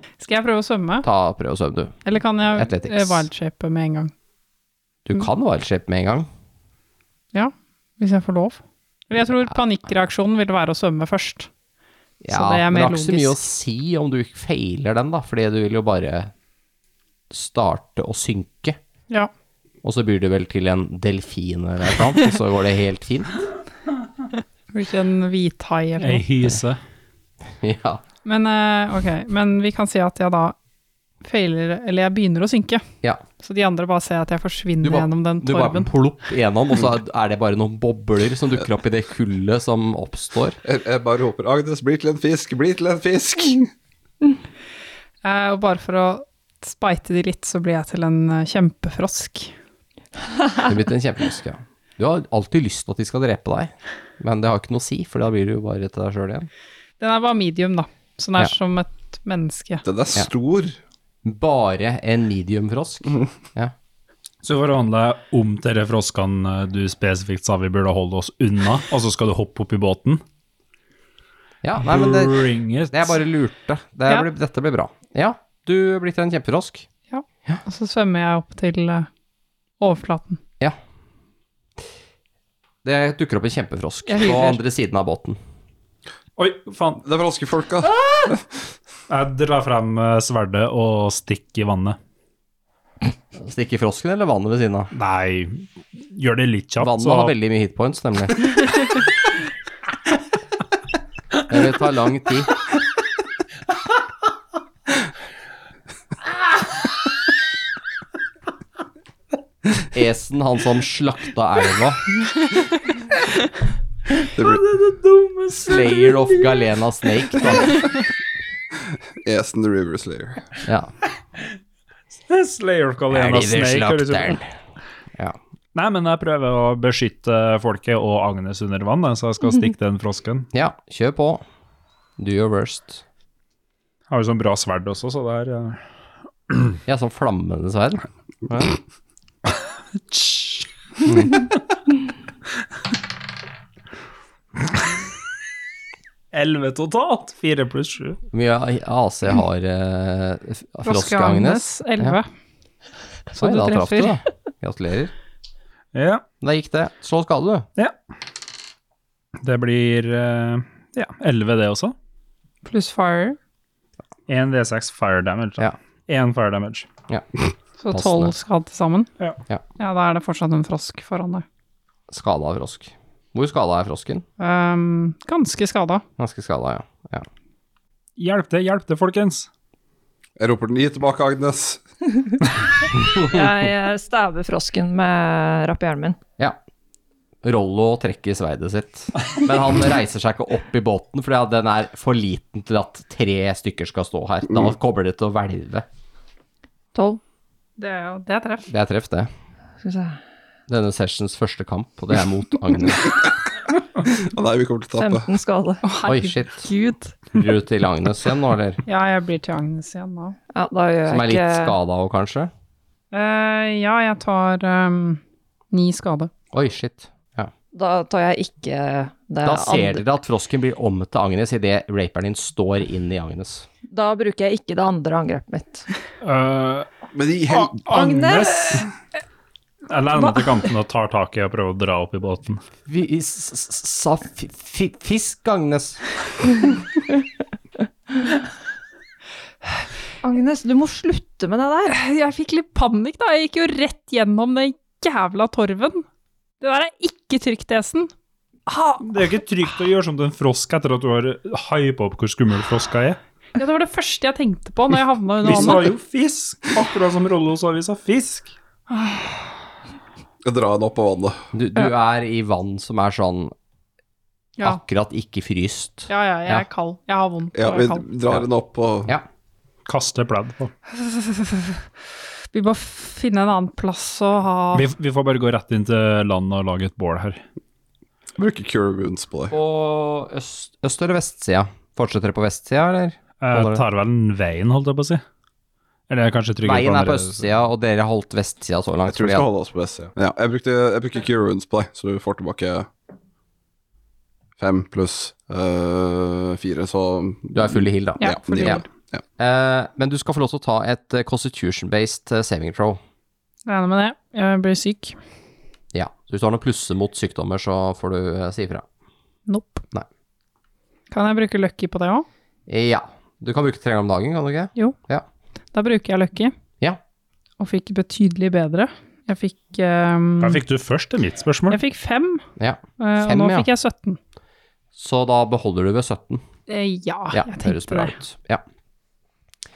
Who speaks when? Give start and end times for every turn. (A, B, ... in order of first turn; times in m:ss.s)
0:00.2-0:01.0 A
0:01.0-0:02.0 B
0:02.0-0:04.1 A
0:02.5-0:03.3 B
0:05.0-0:06.3 B
0:07.3-0:11.5 A
0:12.2-0:16.3 B
0:12.3-0:13.4 A
0:17.3-0:18.8 B
0:19.8-0:23.4 B
0:24.7-0:26.2 A
0:26.0-0:26.8 C
0:27.6-0:28.0 B
0:28.2-0:30.6 A
0:31.2-0:32.9 A
0:33.4-0:35.9 A
0:34.8-0:40.6 B
0:40.6-0:43.7 D
0:45.2-0:49.5 A
0:50.6-0:56.5 B
0:57.0-0:59.8 A
0:59.8-1:00.8 D
1:01.2-1:03.7 B
1:04.4-1:10.2 C
1:11.6-1:16.9 B
1:11.8-1:13.2 C
1:17.1-1:19.1 A
1:19.8-1:20.4 A
1:22.8-1:25.4 B
1:24.1-1:24.6 E
1:26.4-1:27.0 C
1:27.0-1:28.4 D
1:29.1-1:32.0 C
1:33.4-1:34.9 B
1:34.9-1:37.3 C
1:36.8-1:38.5 B
1:41.5-1:42.5 B
1:49.9-1:52.0 B
1:54.4-1:54.6 D
1:54.4-1:56.6 C
1:55.5-1:57.9 B
1:59.2-2:00.5 D
2:00.6-2:00.9 B
2:02.3-2:04.4 C
2:03.1-2:04.5 B
2:05.7-2:10.5 C
2:10.5-2:11.4 B
2:12.2-2:13.0 B
2:14.1-2:15.8 C
2:16.5-2:16.8 C
2:16.8-2:18.8 B
2:20.1-2:20.7 C
2:26.3-2:28.2 C
2:28.3-2:32.2 B
2:30.8-2:32.3 A
2:33.3-2:35.1 B
2:33.5-2:33.8 A
2:35.9-2:36.2 C
2:36.4-2:37.7 B
2:39.4-2:41.9 C
2:42.6-2:43.4 A
2:44.3-2:46.9 C
2:47.8-2:49.1 A
2:47.9-2:48.3 B
2:49.8-2:51.4 A
2:52.1-2:54.2 B
2:54.4-2:56.0 A
2:56.2-2:57.3 B
2:58.2-2:59.5 C
3:00.4-3:01.8 D
3:02.9-3:06.2 E
3:07.4-3:15.8 B
3:16.9-3:17.2 E
3:17.8-3:18.7 A
3:18.7-3:19.3 B
3:19.8-3:20.2 E
3:20.7-3:23.1 B
3:24.0-3:25.3 D
3:25.0-3:25.8 E
3:25.8-3:27.2 A
3:26.0-3:26.7 B
3:27.3-3:28.8 B
3:28.8-3:30.4 A
3:30.5-3:31.8 E
3:31.1-3:32.5 B
3:33.1-3:36.3 A
3:36.5-3:37.5 B
3:37.7-3:40.0 E
3:39.4-3:43.6 B
3:43.9-3:45.9 E
3:46.2-3:46.9 C
3:47.1-3:47.8 D
3:47.5-3:48.9 C
3:47.8-3:48.9 E
3:49.9-3:52.6 C
3:50.2-3:50.6 E
3:52.9-3:56.0 B
4:00.2-4:02.0 E
4:01.9-4:06.0 A
4:06.6-4:08.1 A
4:09.0-4:13.2 C
4:13.5-4:15.9 A
4:15.4-4:18.5 C
4:20.4-4:21.5 D
4:21.5-4:23.5 B
4:24.6-4:26.6 B
4:26.1-4:28.0 A
4:27.5-4:29.1 D
4:29.8-4:30.7 C
4:30.9-4:31.8 A
4:32.5-4:34.9 A
4:34.7-4:37.4 C
4:38.4-4:39.5 D
4:39.5-4:43.8 B
4:43.4-4:45.2 C
4:46.1-4:47.5 C
4:46.6-4:49.4 B
4:49.1-4:52.9 D
4:54.6-4:59.2 D
4:57.5-4:58.8 B
4:58.2-4:58.8 A
4:59.4-5:03.0 B
5:03.6-5:05.2 A
5:05.9-5:08.8 B
5:09.5-5:09.8 A
5:11.1-5:12.2 A
5:12.7-5:15.2 B
5:15.7-5:16.5 A
5:17.6-5:20.6 A
5:20.4-5:21.8 C
5:21.7-5:22.4 A
5:22.6-5:23.7 B
5:23.0-5:24.2 A
5:25.0-5:26.4 B
5:26.7-5:28.2 A
5:27.3-5:28.6 B